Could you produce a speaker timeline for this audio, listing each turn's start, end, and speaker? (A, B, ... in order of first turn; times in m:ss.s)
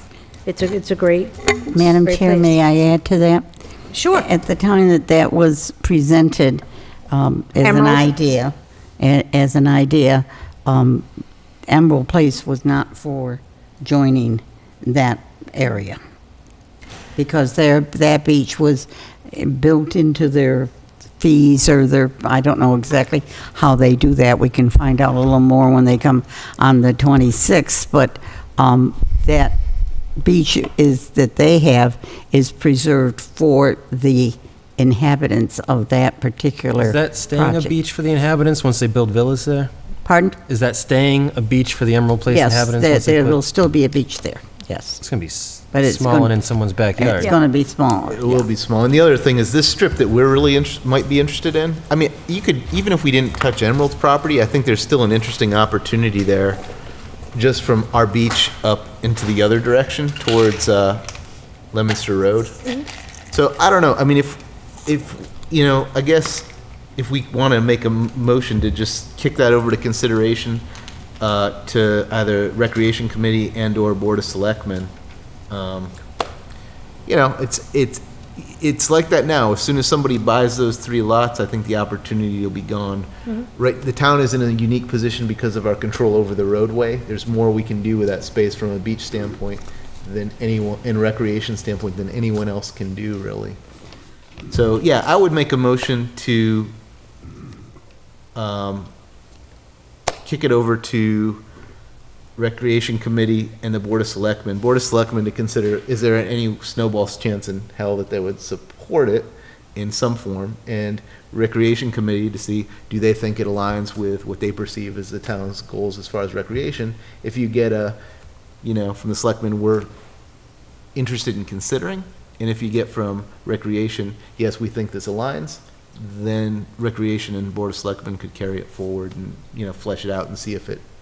0:00.4-0:02.6 A
0:01.7-0:03.4 B
0:03.9-0:04.2 A
0:04.1-0:11.0 B
0:07.6-0:08.0 A
0:11.7-0:16.0 B
0:17.2-0:29.6 B
0:30.2-0:37.7 B
0:36.8-0:39.7 C
0:40.0-0:40.4 B
0:40.4-0:43.4 C
0:42.3-0:45.0 B
0:45.0-0:47.3 C
0:45.7-0:46.3 B
0:47.0-0:48.4 B
0:48.1-0:56.6 D
0:57.3-1:01.1 D
1:01.7-1:02.6 D
1:03.3-1:10.6 D
1:11.2-1:14.9 D
1:15.5-1:15.9 D
1:17.0-1:33.6 D
1:34.5-1:36.7 D
1:38.3-1:38.9 D
1:40.2-1:41.4 D
1:42.4-1:58.0 D
1:58.6-1:59.9 D
2:00.9-2:10.8 D